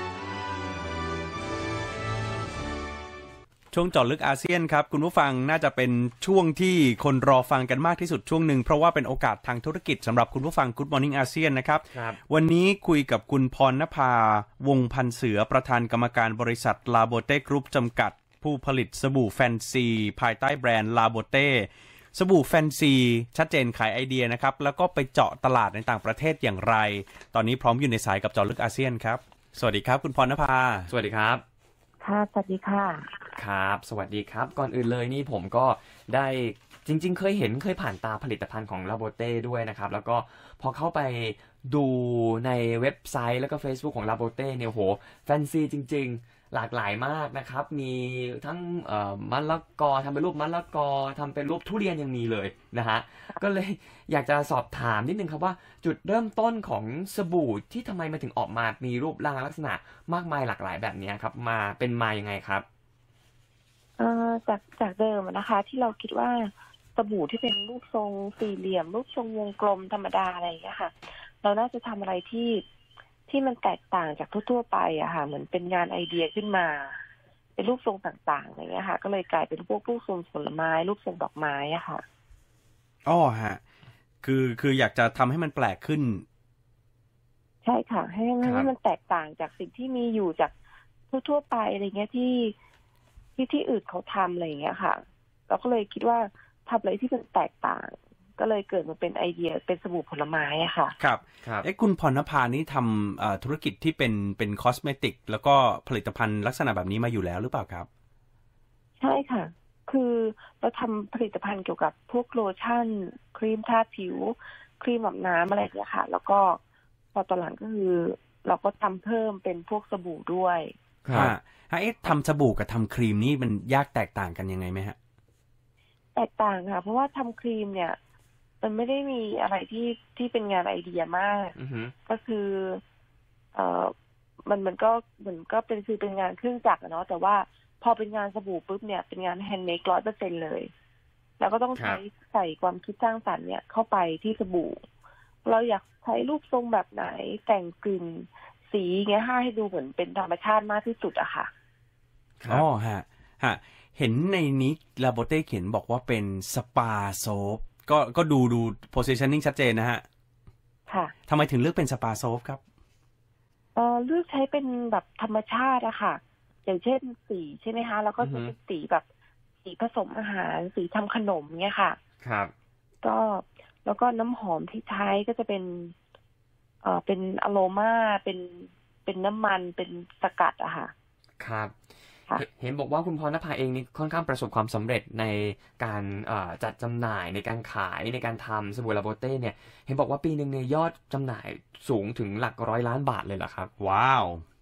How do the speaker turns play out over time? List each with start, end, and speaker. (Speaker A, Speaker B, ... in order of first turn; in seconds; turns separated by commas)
Speaker A: 3.7-30.9, Speaker B: 11.9-12.2, Speaker B: 30.9-31.4, Speaker C: 32.0-33.1, Speaker B: 33.3-62.6, Speaker C: 64.0-72.6, Speaker C: 73.3-77.0, Speaker C: 77.6-82.0, Speaker A: 83.0-83.6, Speaker A: 84.2-86.2, Speaker C: 87.6-90.5, Speaker B: 88.4-88.7, Speaker C: 91.1-92.5, Speaker C: 93.4-101.0, Speaker A: 101.0-107.9, Speaker B: 101.4-101.7, Speaker C: 109.0-116.6, Speaker C: 117.1-120.7, Speaker B: 121.0-121.3, Speaker A: 121.1-125.0, Speaker C: 126.2-128.0, Speaker C: 128.6-131.5, Speaker B: 131.6-131.9, Speaker C: 132.1-132.8, Speaker C: 133.5-133.9, Speaker C: 134.5-140.7, Speaker C: 141.4-144.8, Speaker B: 141.7-142.0, Speaker C: 145.4-151.5, Speaker B: 152.4-152.7, Speaker A: 152.5-160.0, Speaker C: 160.9-161.1, Speaker A: 161.3-162.6, Speaker C: 163.8-169.1, Speaker B: 168.2-168.5, Speaker C: 169.6-172.0, Speaker B: 172.2-172.5, Speaker C: 173.0-175.9, Speaker C: 176.8-180.9, Speaker B: 181.4-181.8, Speaker B: 182.3-193.7, Speaker A: 193.8-194.4